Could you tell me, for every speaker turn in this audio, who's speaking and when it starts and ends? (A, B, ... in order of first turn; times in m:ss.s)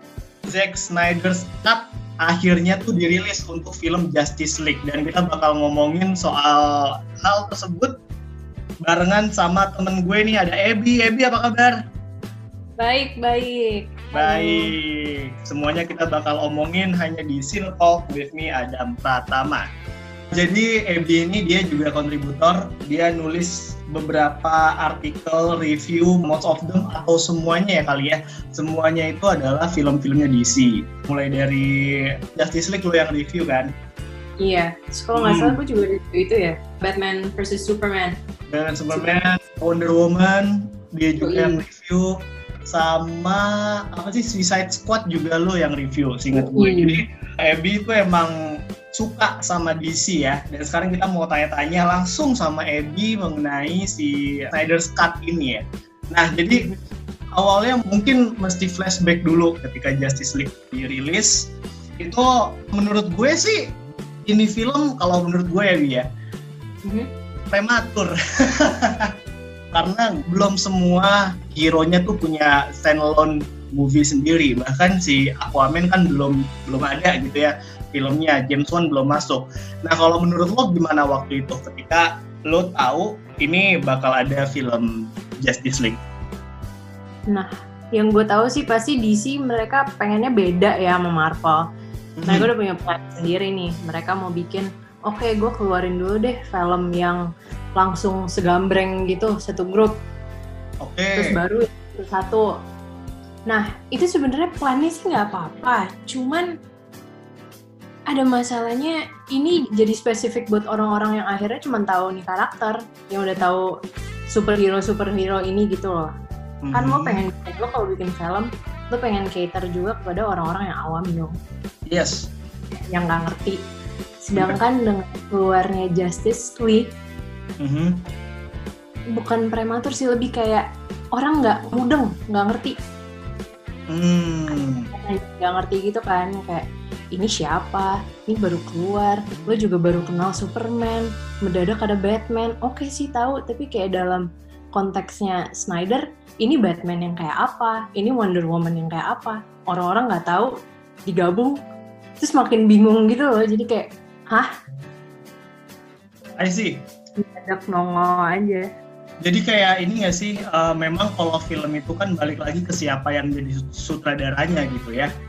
0:00.4-0:07.9 A
0:08.8-0:11.7 A
0:12.8-0:14.7 B
0:14.2-0:19.6 A
0:20.3-0:31.7 A
0:32.3-0:33.7 A
0:34.4-0:38.2 B
0:35.2-0:35.6 A
0:38.5-0:42.1 A
0:41.2-0:41.6 B
0:42.6-0:48.3 A
0:46.4-0:47.0 B
0:49.0-0:56.6 A
0:57.4-1:01.5 A
1:02.0-1:03.6 A
1:04.2-1:06.1 A
1:07.5-1:09.1 A
1:09.7-1:24.9 A
1:25.4-1:26.0 A
1:27.3-1:31.6 B
1:32.2-1:32.5 A
1:32.3-1:37.2 B
1:37.8-1:39.9 B
1:40.8-1:41.3 A
1:41.2-1:42.4 B
1:43.5-1:46.5 B
1:48.1-1:53.6 B
1:54.3-1:56.1 B
1:56.6-1:57.2 A
1:56.7-2:01.4 B
2:01.9-2:02.3 A
2:02.9-2:03.6 B
2:04.2-2:06.9 B
2:07.6-2:08.0 A
2:09.2-2:12.8 B
2:13.9-2:14.9 A
2:14.9-2:30.5 B
2:31.1-2:31.6 B
2:32.2-2:34.5 B
2:36.4-2:36.8 A
2:37.2-2:38.7 B
2:39.2-2:45.1 A